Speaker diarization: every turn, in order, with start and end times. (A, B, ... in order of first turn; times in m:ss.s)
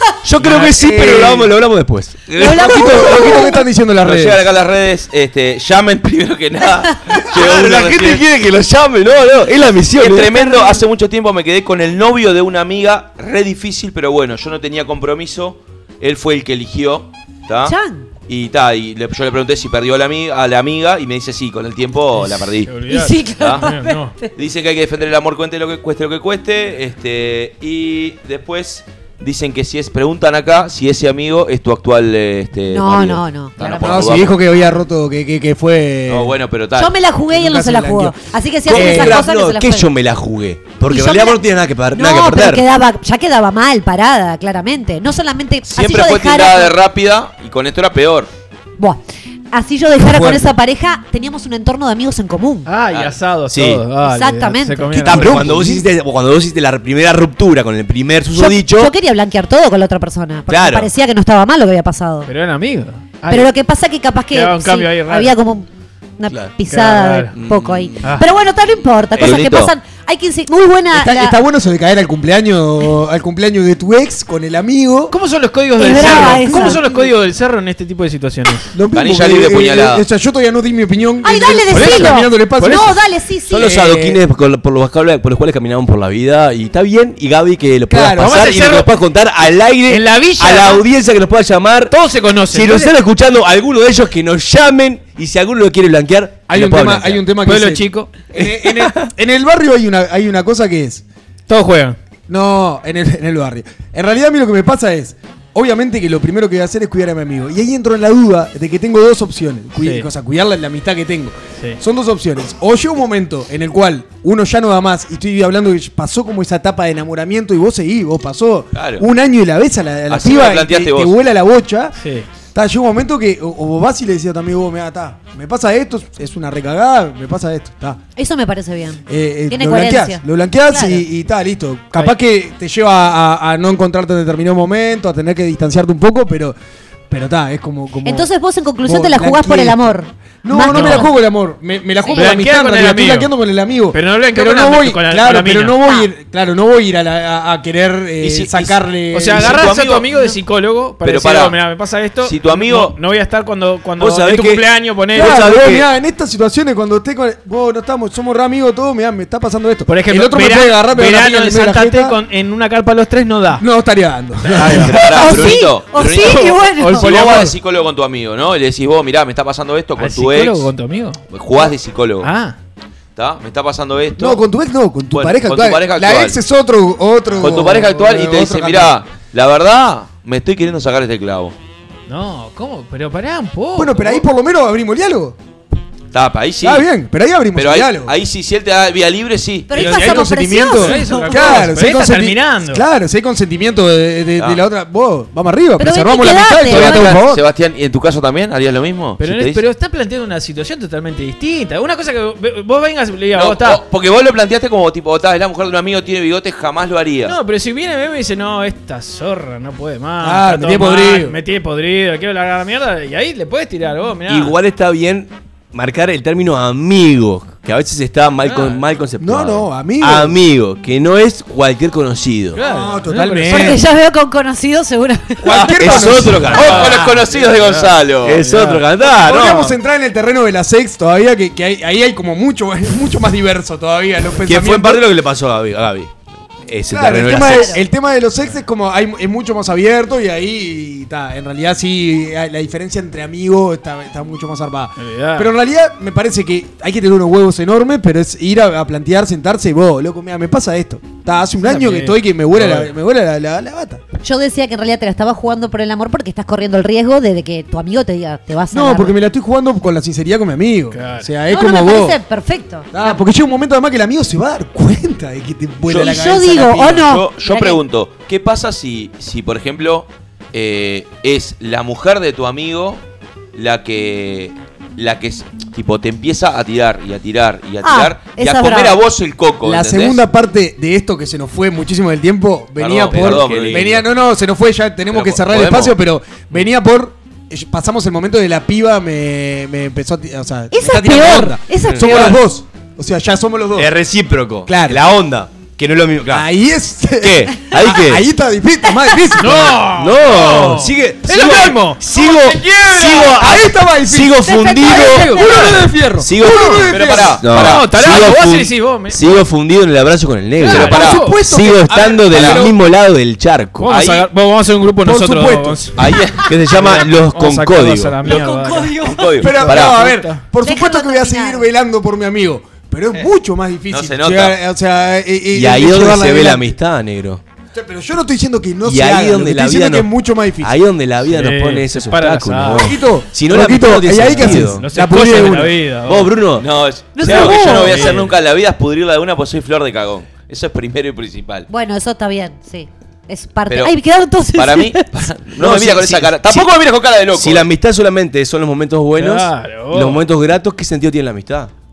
0:00.2-0:03.2 A
0:00.4-0:00.8 B
0:00.8-0:01.5 C
0:02.3-0:03.1 D
0:02.4-0:03.6 E
0:02.6-0:04.4 C
0:04.0-0:08.2 D
0:07.3-0:10.5 A
0:10.0-0:17.7 D
0:10.4-0:10.8 E
0:17.6-0:18.1 E
0:18.3-0:22.7 D
0:22.2-0:24.1 B
0:22.9-0:24.3 E
0:23.4-0:23.6 D
0:24.4-0:34.4 D
0:32.7-0:34.3 E
0:33.7-0:36.3 C
0:36.1-0:36.9 D
0:36.8-0:39.9 E
0:37.3-0:39.3 C
0:38.6-0:42.6 A
0:40.9-0:46.7 E
0:45.6-0:48.3 D
0:49.5-0:52.7 E
0:50.0-0:50.6 C
0:52.6-0:55.5 B
0:53.5-0:53.8 A
0:54.0-0:55.3 E
0:55.0-0:58.9 A
0:55.1-0:55.9 C
0:58.3-1:02.3 E
1:00.5-1:00.9 A
1:02.2-1:03.5 B
1:03.3-1:05.7 E
1:04.3-1:05.3 B
1:06.2-1:11.4 E
1:06.7-1:07.3 B
1:07.3-1:08.1 A
1:08.0-1:08.3 B
1:09.2-1:09.5 A
1:09.2-1:09.7 D
1:10.9-1:15.1 C
1:15.1-1:18.7 B
1:15.8-1:16.8 E
1:15.8-1:17.1 C
1:18.7-1:23.0 C
1:18.9-1:20.0 D
1:21.2-1:23.8 E
1:21.7-1:22.8 B
1:23.5-1:31.9 A
1:23.6-1:24.2 C
1:27.9-1:28.4 C
1:28.2-1:28.9 B
1:29.9-1:30.8 B
1:31.9-1:32.9 B
1:32.5-1:37.2 A
1:36.5-1:41.0 C
1:37.4-1:38.1 B
1:38.4-1:39.1 A
1:41.5-1:42.0 B
1:42.3-2:01.9 C
1:49.8-1:50.1 B
1:58.7-1:59.0 D
2:00.1-2:01.1 D
2:02.0-2:02.3 B
2:02.5-2:08.0 C
2:08.2-2:11.0 E
2:09.1-2:16.6 C
2:17.1-2:18.3 C
2:18.0-2:21.1 E
2:18.8-2:19.9 C
2:20.4-2:29.6 C
2:20.7-2:21.1 B
2:22.1-2:22.3 E
2:22.1-2:23.3 B
2:23.9-2:25.8 B
2:25.8-2:26.1 E
2:28.2-2:28.8 D
2:29.1-2:35.4 B
2:29.3-2:30.1 D
2:31.0-2:31.6 D
2:32.2-2:32.9 D
2:34.0-2:35.8 A
2:35.1-2:42.2 C
2:39.9-2:43.6 B
2:43.6-2:45.0 C
2:44.5-2:45.4 B
2:44.8-2:50.7 D
2:45.0-2:47.4 E
2:46.0-2:47.5 B
2:50.0-2:51.2 B
2:51.3-2:52.3 D
2:52.2-2:52.6 B
2:53.2-2:54.4 D
2:54.2-2:59.0 C
2:55.1-2:56.4 D
2:57.4-3:01.5 D
3:02.1-3:04.2 B
3:03.7-3:05.4 C
3:06.1-3:06.9 D
3:06.6-3:08.1 C
3:07.5-3:10.0 D
3:09.7-3:11.6 E
3:09.7-3:17.4 C
3:09.8-3:12.8 B
3:15.8-3:17.2 E
3:16.7-3:19.6 D
3:19.2-3:23.8 B
3:23.3-3:27.4 D
3:27.2-3:34.5 B
3:30.2-3:31.4 C
3:34.3-3:42.6 A
3:38.4-3:38.8 B
3:39.2-3:40.4 C
3:42.5-3:43.8 B
3:42.6-3:43.8 C
3:43.5-3:45.8 E
3:45.4-3:47.1 C
3:45.5-3:48.4 D
3:45.6-3:47.0 A
3:46.4-3:48.9 B
3:48.2-3:49.7 A
3:49.0-3:55.0 C
3:54.4-3:56.1 A
3:56.6-3:57.7 A
3:56.9-4:14.0 C
3:57.2-3:57.8 E
4:05.0-4:05.5 B
4:11.6-4:12.9 B
4:14.2-4:19.1 E
4:18.7-4:22.2 C
4:20.9-4:21.3 B
4:21.5-4:23.2 E
4:22.9-4:26.9 C
4:25.9-4:33.0 D
4:25.9-4:27.8 E
4:33.5-4:40.2 D
4:37.8-4:39.0 E
4:39.6-4:53.9 C
4:42.8-4:44.0 D
4:43.1-4:44.0 A
4:45.1-4:46.0 D
4:50.7-4:52.4 E
4:51.9-4:52.3 A
4:53.8-4:56.5 A
4:54.6-4:55.0 C
4:56.3-4:59.8 C
4:57.2-4:58.2 A
4:59.4-5:03.4 B
4:59.9-5:13.9 A
5:03.1-5:07.4 C
5:04.4-5:05.7 E
5:04.9-5:05.7 B
5:06.5-5:06.8 B
5:06.8-5:07.9 D
5:07.5-5:09.2 B
5:10.6-5:11.4 B
5:10.6-5:11.2 D
5:10.7-5:12.8 C
5:12.2-5:12.6 D
5:13.8-5:16.0 B
5:13.9-5:14.2 D
5:15.0-5:15.9 C
5:16.0-5:16.5 D
5:16.5-5:18.2 A
5:16.7-5:20.4 B
5:18.2-5:19.5 E
5:19.0-5:20.0 D
5:19.4-5:26.7 C
5:20.6-5:21.7 E
5:23.9-5:24.6 D
5:25.5-5:27.4 A
5:27.7-5:30.8 C
5:28.8-5:30.1 A
5:30.6-5:34.9 A
5:31.3-5:32.9 B
5:32.8-5:35.8 C
5:34.2-5:36.3 B
5:36.0-5:36.7 A
5:36.6-5:41.7 D
5:37.1-5:38.2 E
5:37.2-5:38.3 B
5:41.7-5:45.3 E
5:43.7-5:43.9 D
5:44.5-5:47.7 D
5:45.6-5:46.6 A
5:47.3-5:51.7 A
5:49.1-5:50.2 B